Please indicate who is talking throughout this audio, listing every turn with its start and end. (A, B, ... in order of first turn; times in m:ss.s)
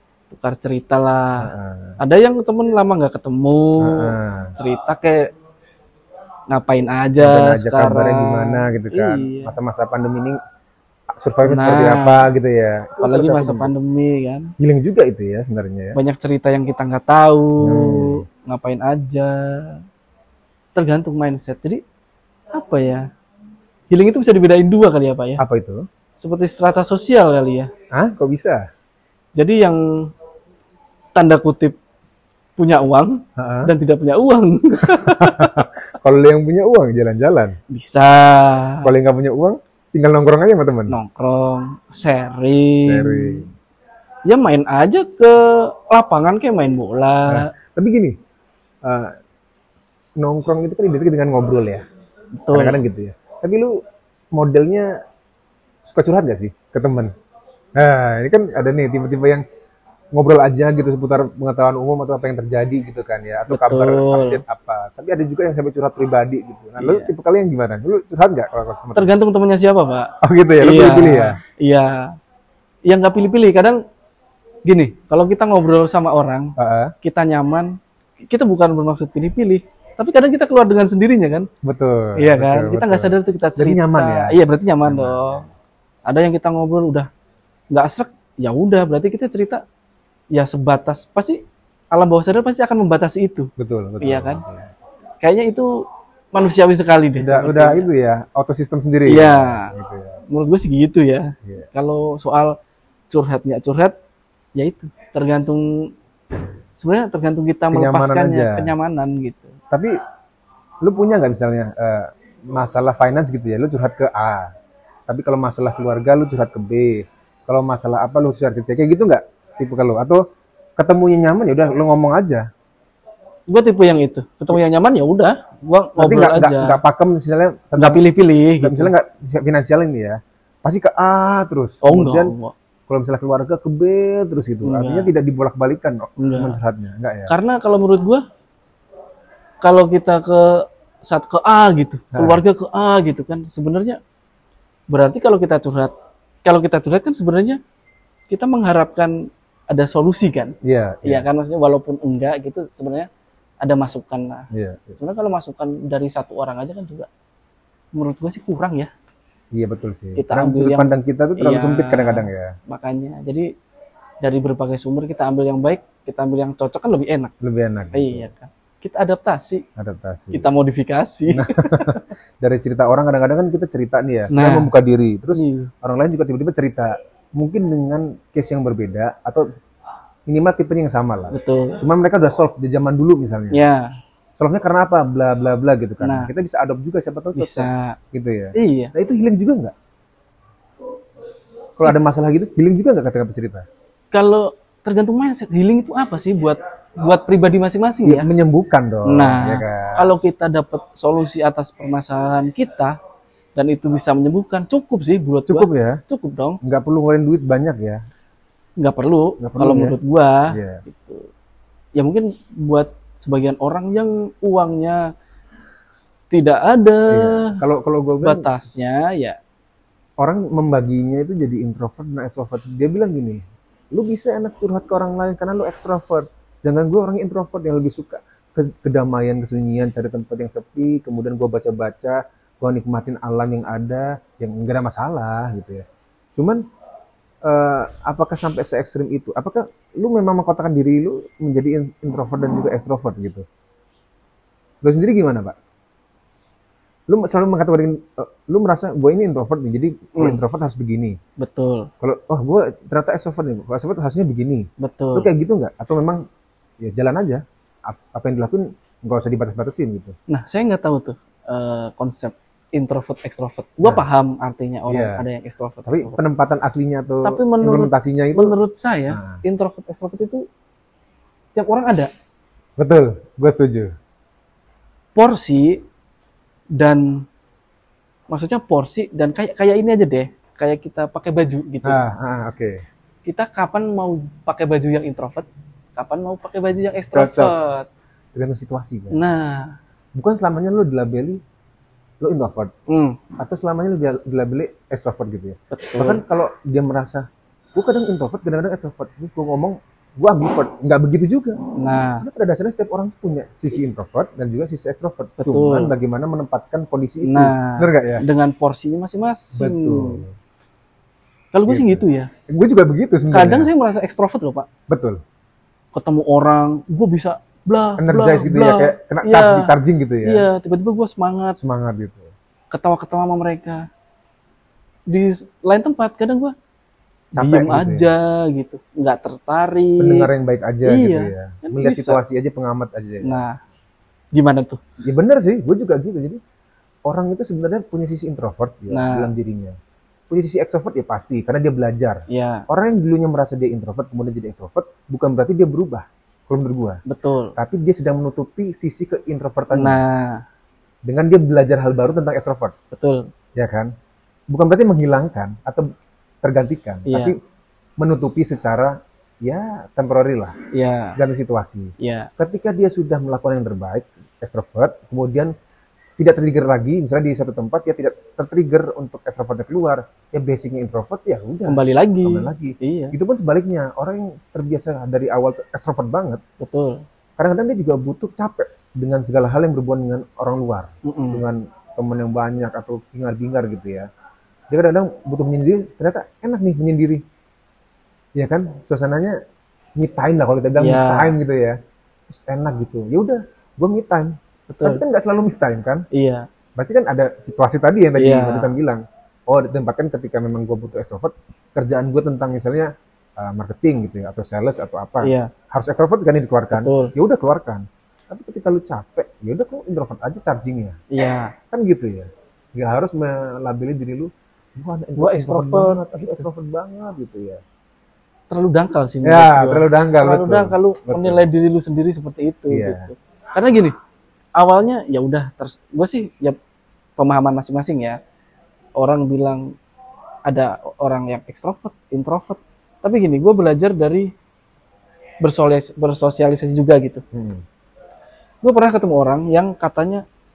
0:00.3-0:05.3 A
0:01.4-0:02.0 B
0:03.8-0:04.6 B
0:06.5-0:09.6 A
0:07.2-0:10.4 B
0:11.2-0:13.7 B
0:11.4-0:12.3 A
0:13.0-0:14.5 A
0:14.6-0:16.0 B
0:16.0-0:19.8 A
0:17.6-0:18.3 B
0:20.8-0:21.8 A
0:22.5-0:23.1 A
0:23.9-0:25.4 A
0:25.4-0:25.9 B
0:26.2-0:27.7 A
0:27.9-0:28.7 B
0:29.4-0:30.1 A
0:31.2-0:31.8 A
0:32.6-0:35.7 A
0:33.4-0:33.7 B
0:34.8-0:37.6 B
0:37.7-0:38.9 A
0:38.8-0:41.0 B
0:40.9-0:43.5 A
0:42.8-0:43.5 B
0:44.3-0:47.5 A
0:47.3-0:48.2 B
0:48.8-0:49.2 B
0:50.2-0:51.8 B
0:52.4-0:52.8 A
0:52.5-0:53.8 B
0:54.3-0:54.9 B
0:55.8-0:57.1 B
0:57.8-0:59.4 B
1:00.2-1:09.2 B
1:03.5-1:04.4 A
1:06.8-1:07.1 A
1:09.0-1:12.2 A
1:10.2-1:11.4 B
1:12.9-1:13.8 A
1:14.6-1:21.5 A
1:16.6-1:16.9 B
1:21.6-1:25.5 B
1:22.2-1:25.4 A
1:26.1-1:27.1 A
1:27.7-1:29.6 A
1:30.3-1:31.4 A
1:31.9-1:33.5 A
1:33.6-1:34.7 B
1:34.0-1:34.4 A
1:35.2-1:37.9 A
1:37.2-1:40.2 B
1:39.1-1:39.7 A
1:40.3-1:42.6 A
1:43.1-1:43.9 A
1:44.6-1:45.9 A
1:46.8-1:49.6 A
1:47.7-1:48.7 B
1:50.8-1:54.5 B
1:55.1-2:00.2 B
2:00.8-2:02.4 B
2:03.5-2:06.8 A
2:06.0-2:08.0 B
2:07.8-2:08.9 A
2:08.6-2:12.3 B
2:11.8-2:12.6 A
2:12.9-2:17.3 B
2:14.6-2:15.1 A
2:16.2-2:16.6 A
2:17.3-2:18.2 A
2:19.6-2:24.0 A
2:22.1-2:22.4 B
2:24.9-2:25.9 A
2:26.4-2:27.6 A
2:28.3-2:30.5 A
2:30.6-2:31.3 B
2:31.0-2:33.1 A
2:33.6-2:37.1 A
2:34.5-2:35.0 B
2:38.0-2:38.9 A
2:39.5-2:42.6 B
2:40.2-2:43.5 A
2:44.2-2:47.3 A
2:47.4-2:48.3 B
2:47.9-2:49.6 A
2:49.8-2:50.5 B
2:50.3-2:52.0 A
2:51.3-2:59.5 B
2:54.3-2:54.7 A
2:55.4-2:55.7 A
3:00.3-3:03.6 B
3:01.3-3:01.8 A
3:03.5-3:03.9 A
3:04.4-3:09.7 B
3:06.0-3:06.3 A
3:07.4-3:08.0 A
3:08.6-3:08.9 A
3:11.8-3:13.6 B
3:14.1-3:18.3 A
3:18.0-3:20.1 B
3:19.1-3:23.0 A
3:23.6-3:26.6 A
3:25.5-3:26.0 B
3:26.6-3:28.0 B
3:28.8-3:31.3 A
3:29.4-3:30.0 B
3:30.5-3:30.8 B
3:32.0-3:35.1 A
3:36.3-3:37.6 A
3:37.1-3:38.5 B
3:38.2-3:39.4 A
3:40.2-3:43.4 B
3:43.9-3:55.8 B
3:57.4-4:03.5 B
4:04.8-4:05.6 B
4:07.1-4:11.2 B
4:10.2-4:10.4 A
4:11.4-4:11.9 A
4:12.0-4:16.2 B
4:14.8-4:15.3 A
4:16.8-4:20.2 B
4:20.3-4:26.2 A
4:24.9-4:25.2 B
4:25.9-4:28.6 B
4:27.2-4:30.4 A
4:29.1-4:29.4 B
4:31.6-4:32.1 A
4:32.8-4:33.9 B
4:35.2-4:35.8 A
4:36.8-4:37.2 A
4:38.3-4:42.0 A
4:41.8-4:42.8 B
4:43.2-4:47.9 A
4:47.1-4:47.6 B
4:48.4-4:49.2 B
4:49.1-4:49.8 A
4:50.2-4:51.4 B
4:52.2-4:52.7 B
4:52.9-4:53.2 A
4:53.4-5:01.6 B
4:55.7-4:56.2 A
5:01.8-5:02.2 A
5:02.2-5:08.2 B
5:05.4-5:06.0 A
5:07.2-5:10.2 A
5:09.5-5:10.3 B
5:11.5-5:12.3 A
5:11.7-5:13.7 B
5:13.3-5:14.7 A
5:14.9-5:15.2 B
5:15.9-5:21.6 A
5:18.0-5:20.5 B
5:21.6-5:22.3 B
5:22.7-5:23.9 A
5:25.1-5:26.5 A
5:27.4-5:30.3 A
5:27.4-5:28.1 B
5:30.0-5:33.4 B
5:30.8-5:32.2 A
5:33.2-5:33.6 A
5:34.4-5:34.8 A
5:35.0-5:36.4 B
5:37.1-5:39.8 B
5:38.9-5:39.3 A
5:40.3-5:47.0 B
5:42.3-5:42.7 A
5:47.1-5:47.6 A
5:47.6-5:50.0 B
5:49.7-5:50.4 A
5:51.0-5:52.7 B
5:52.9-5:53.3 A
5:53.6-5:53.9 B
5:54.5-5:55.9 B
5:56.4-5:57.4 B
5:57.1-5:57.4 A
5:58.0-6:00.6 B
6:00.7-6:01.2 A
6:01.2-6:05.5 B
6:02.0-6:02.3 A
6:06.2-6:16.4 B
6:11.6-6:13.2 A
6:16.6-6:17.0 A
6:17.4-6:24.1 B
6:21.0-6:21.4 A
6:24.7-6:27.2 B
6:28.4-6:29.4 B
6:30.0-6:31.8 B
6:30.8-6:31.4 A
6:32.3-6:36.0 B
6:34.7-6:35.0 A
6:36.1-6:36.5 A
6:36.8-6:51.0 B
6:38.2-6:38.8 A
6:45.2-6:45.5 A
6:46.7-6:47.1 A
6:51.1-6:51.5 A
6:51.7-6:57.6 B
6:55.2-6:56.1 A
6:58.5-7:04.0 A
6:59.2-7:01.4 B
7:02.7-7:03.1 B
7:04.6-7:06.6 A
7:07.2-7:08.2 A
7:09.0-7:09.8 A
7:10.5-7:14.3 A
7:15.4-7:17.2 A
7:17.3-7:17.6 B
7:18.6-7:20.2 A